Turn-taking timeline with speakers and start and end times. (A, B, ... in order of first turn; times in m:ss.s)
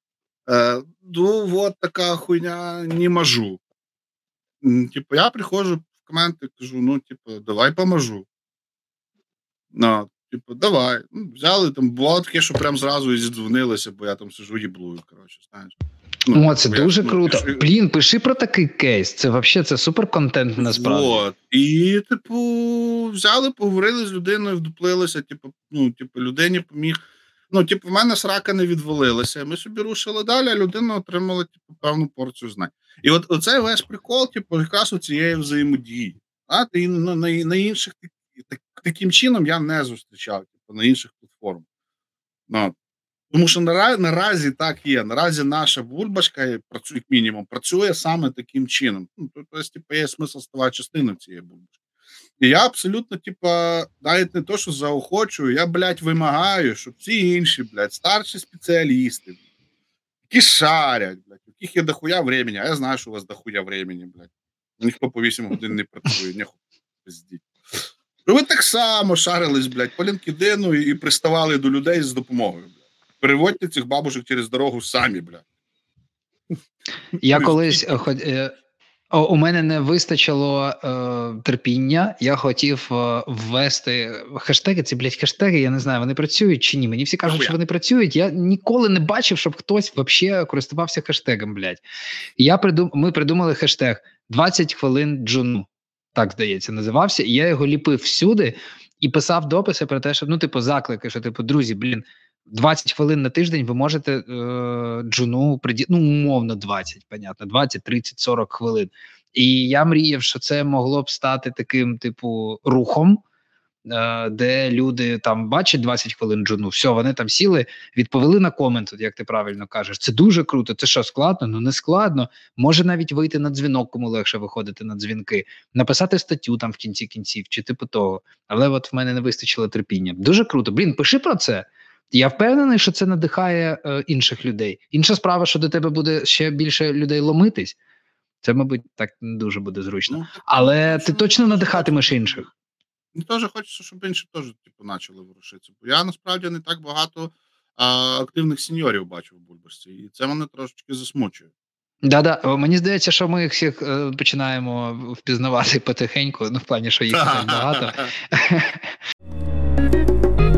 0:00.5-0:03.6 A
0:04.6-0:08.3 A
0:09.7-0:17.7 A
0:16.3-0:21.2 B
0:20.6-0:27.0 A
0:27.5-0:41.6 A
0:42.5-0:42.7 A
0:43.3-0:51.6 A
0:52.4-0:59.4 A
1:00.3-1:04.3 A
1:04.8-1:07.4 A
1:08.3-1:15.4 A
1:17.2-1:18.0 A
1:17.2-1:18.5 B
1:19.1-1:31.8 B
1:27.3-1:27.6 A
1:32.4-1:53.2 B
1:53.9-2:17.8 B
2:18.4-2:22.5 B
2:20.1-2:22.5 A
2:23.2-2:31.5 A
2:32.0-2:38.9 B
2:37.1-2:38.1 A